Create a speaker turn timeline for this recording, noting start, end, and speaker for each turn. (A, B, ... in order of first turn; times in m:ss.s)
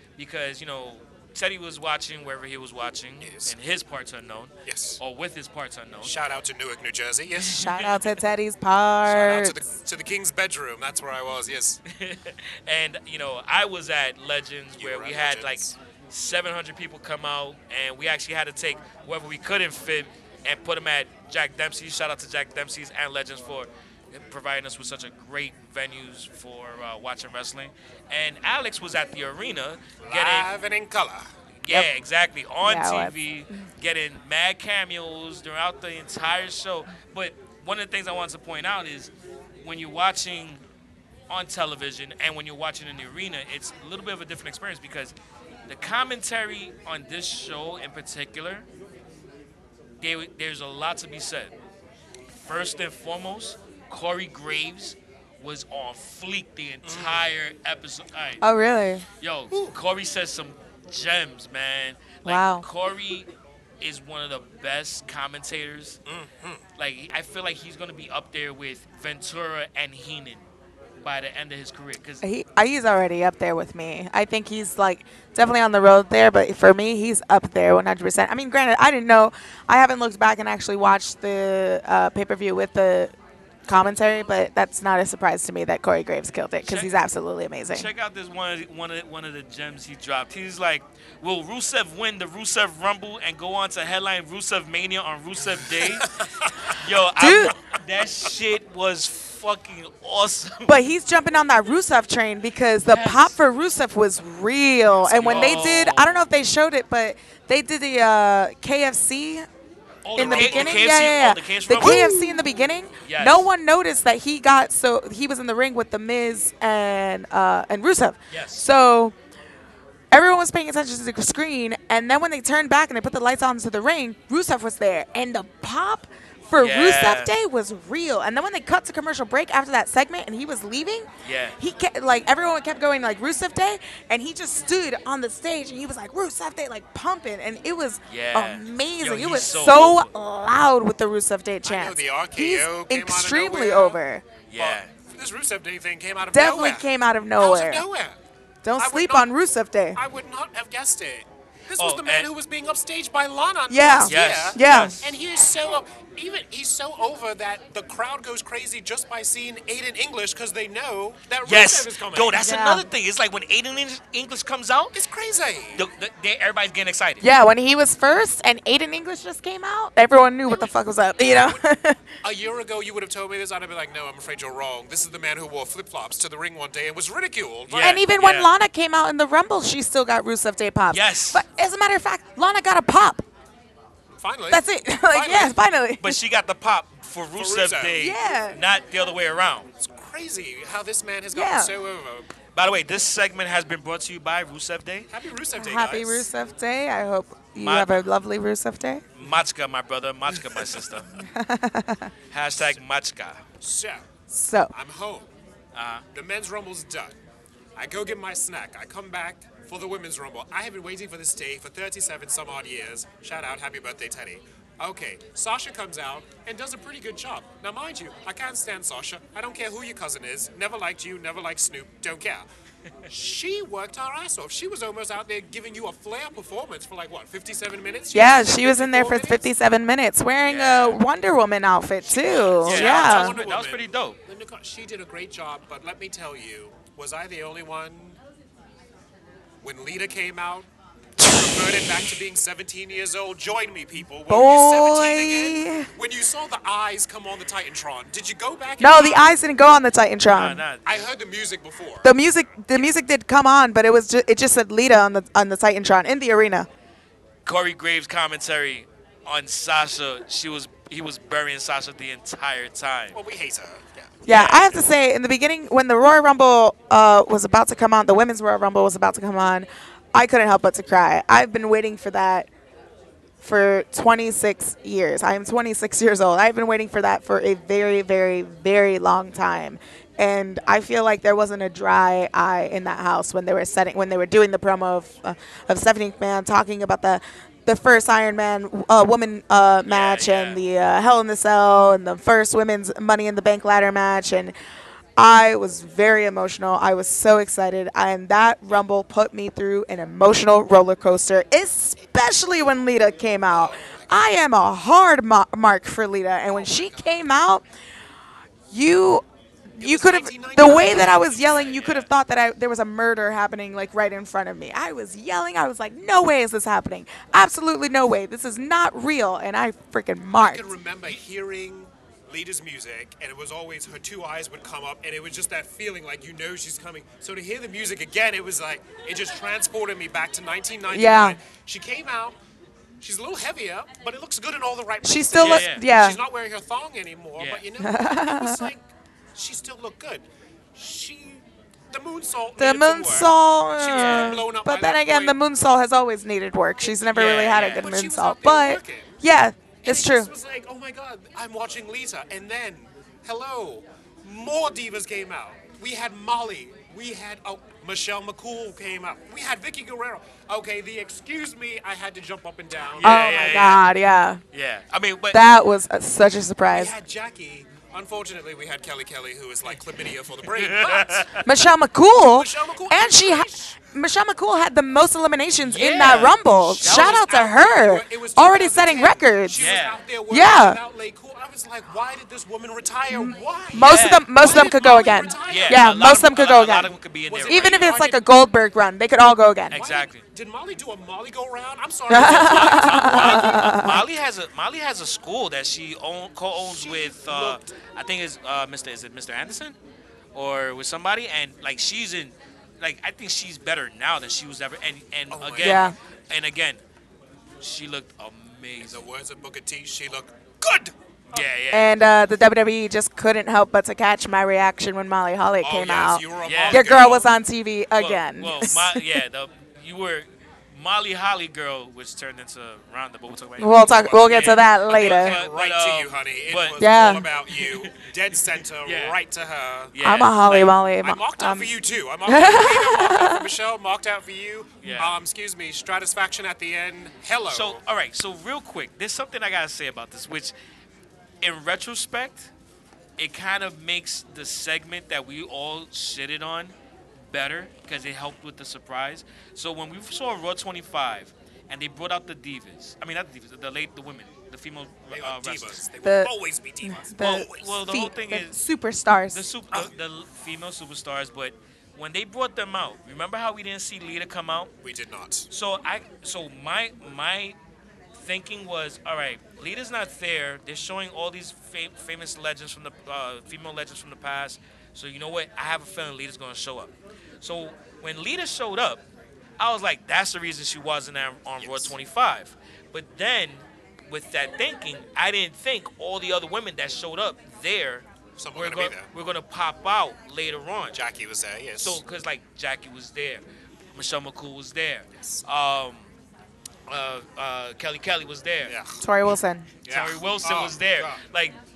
0:00.2-0:06.2 A
0:03.2-0:03.5 B
0:04.6-0:05.0 B
0:06.0-0:07.7 B
0:07.4-0:08.0 A
0:07.5-0:09.6 C
0:09.0-0:11.8 B
0:11.9-0:30.5 A
0:14.8-0:15.7 B
0:30.0-0:31.3 B
0:31.6-0:39.1 A
0:32.6-0:33.1 C
0:39.6-0:40.6 A
0:41.3-0:45.1 A
0:45.7-0:48.6 A
0:50.0-0:51.5 A
0:52.4-0:58.4 A
0:56.8-0:57.2 B
0:58.4-0:59.0 C
0:59.2-1:03.3 A
1:02.2-1:02.6 C
1:03.8-1:06.0 A
1:06.0-1:06.6 B
1:06.8-1:10.4 A
1:11.0-1:12.2 A
1:12.2-1:23.1 C
1:23.7-1:27.9 C
1:26.6-1:27.0 A
1:27.7-1:36.1 A
1:35.9-1:36.8 B
1:36.6-1:40.7 A
1:37.2-1:37.6 C
1:40.6-1:49.4 C
1:42.8-1:43.3 A
1:45.1-1:46.2 A
1:45.2-1:45.6 B
1:50.0-1:52.3 A
1:50.2-1:50.8 B
1:50.2-1:59.1 C
1:51.8-1:52.2 B
1:53.0-1:53.5 A
1:58.3-1:58.6 A
2:00.1-2:11.1 C
2:06.6-2:07.3 A
2:11.2-2:11.6 A
2:11.6-2:24.2 C
2:18.1-2:20.1 A
2:21.6-2:24.0 B
2:24.5-2:24.9 A
2:24.6-2:26.9 B
2:26.3-2:27.8 C
2:27.4-2:28.2 B
2:28.6-2:30.0 C
2:28.8-2:29.3 B
2:29.9-2:42.4 B
2:31.8-2:32.3 A
2:33.7-2:35.0 C
2:34.0-2:35.0 A
2:41.4-2:45.0 A
2:42.4-2:42.8 C
2:44.9-2:45.9 B
2:45.8-2:47.2 A
2:47.2-2:52.0 C
2:50.5-2:51.6 B
2:52.2-2:58.0 B
2:57.7-2:58.5 A
2:57.8-3:03.2 C
3:00.9-3:01.4 A
3:04.2-3:05.5 B
3:04.5-3:06.2 C
3:06.0-3:09.7 A
3:07.4-3:08.0 B
3:08.0-3:08.6 C
3:09.8-3:12.3 B
3:11.3-3:11.7 C
3:12.6-3:15.1 A
3:15.1-3:16.3 B
3:15.6-3:19.0 C
3:17.6-3:18.0 A
3:19.2-3:21.1 A
3:20.3-3:20.9 B
3:21.3-3:22.1 C
3:22.3-3:23.4 A
3:23.6-3:24.1 B
3:24.3-3:24.7 C
3:24.7-3:25.3 B
3:25.7-3:26.0 A
3:26.1-3:27.1 B
3:27.8-3:42.4 B
3:43.1-3:49.4 B
3:48.1-3:53.4 C
3:50.4-3:51.0 A
3:52.2-3:58.2 B
3:52.2-3:54.2 A
3:59.6-4:00.7 B
4:01.2-4:09.3 B
4:01.2-4:01.8 C
4:04.3-4:05.9 C
4:08.8-4:10.6 C
4:10.3-4:11.1 A
4:10.8-4:12.1 B
4:12.0-4:16.7 C
4:17.4-4:23.2 A
4:23.1-4:24.3 B
4:24.2-4:32.5 C
4:24.3-4:24.8 A
4:33.4-4:54.5 C
4:49.9-4:50.6 A
4:55.2-5:07.6 C
5:03.5-5:04.2 B
5:06.5-5:07.1 B
5:08.7-5:20.7 C
5:09.8-5:12.1 B
5:20.3-5:32.4 B
5:30.9-5:31.4 C
5:33.0-5:38.8 B
5:35.0-5:36.2 C
5:35.4-5:35.8 A
5:37.4-5:37.6 A
5:37.8-5:38.7 C
5:39.3-5:40.2 B
5:40.7-5:45.4 B
5:42.6-5:50.3 C
5:43.9-5:44.4 A
5:47.1-5:47.9 A
5:47.5-5:49.2 B
5:49.8-6:03.1 B
6:02.9-6:03.8 A
6:03.0-6:04.4 C
6:04.5-6:05.4 A
6:05.3-6:06.9 C
6:06.7-6:11.4 B
6:10.5-6:11.5 A
6:11.4-6:19.7 C
6:12.2-6:13.8 B
6:15.6-6:17.2 A
6:16.0-6:26.2 B
6:19.6-6:20.0 A
6:20.3-6:20.8 C
6:23.1-6:26.9 C
6:23.8-6:24.2 A
6:25.5-6:27.9 A
6:27.3-6:28.2 B
6:27.4-6:29.8 C
6:29.7-6:30.2 A
6:29.7-6:33.8 B
6:32.1-6:34.0 C
6:32.1-6:39.8 A
6:36.6-6:37.7 B
6:40.3-6:46.8 A
6:45.3-6:46.0 B
6:45.6-6:46.0 C
6:47.6-6:49.0 A
6:48.9-6:51.4 B
6:51.3-6:51.9 A
6:51.7-6:59.0 C
6:55.6-6:57.3 B
6:56.4-6:56.9 A
6:57.9-7:06.9 A
7:03.6-7:05.4 C
7:03.9-7:09.9 B
7:06.8-7:07.2 C
7:07.5-7:07.9 A
7:08.8-7:09.2 A
7:09.9-7:10.7 A
7:10.0-7:11.7 C
7:11.0-7:17.8 B
7:12.3-7:13.5 C
7:14.8-7:15.2 A
7:17.5-7:20.5 A
7:21.4-7:22.5 A
7:23.2-7:26.7 A
7:27.3-7:35.8 A
7:35.1-7:37.8 B
7:36.0-7:36.3 C
7:36.8-7:39.4 C
7:37.2-7:38.5 A
7:39.3-7:44.7 A
7:44.8-7:45.5 B
7:45.5-7:47.5 A
7:48.1-7:59.0 A
7:59.6-8:11.0 A
8:01.6-8:01.9 B
8:08.4-8:09.1 B
8:10.9-8:12.0 B
8:11.8-8:13.4 A
8:13.9-8:16.1 A
8:16.9-8:18.7 A
8:18.7-8:19.0 B
8:19.0-8:19.7 C
8:19.8-8:21.2 B
8:19.9-8:21.5 A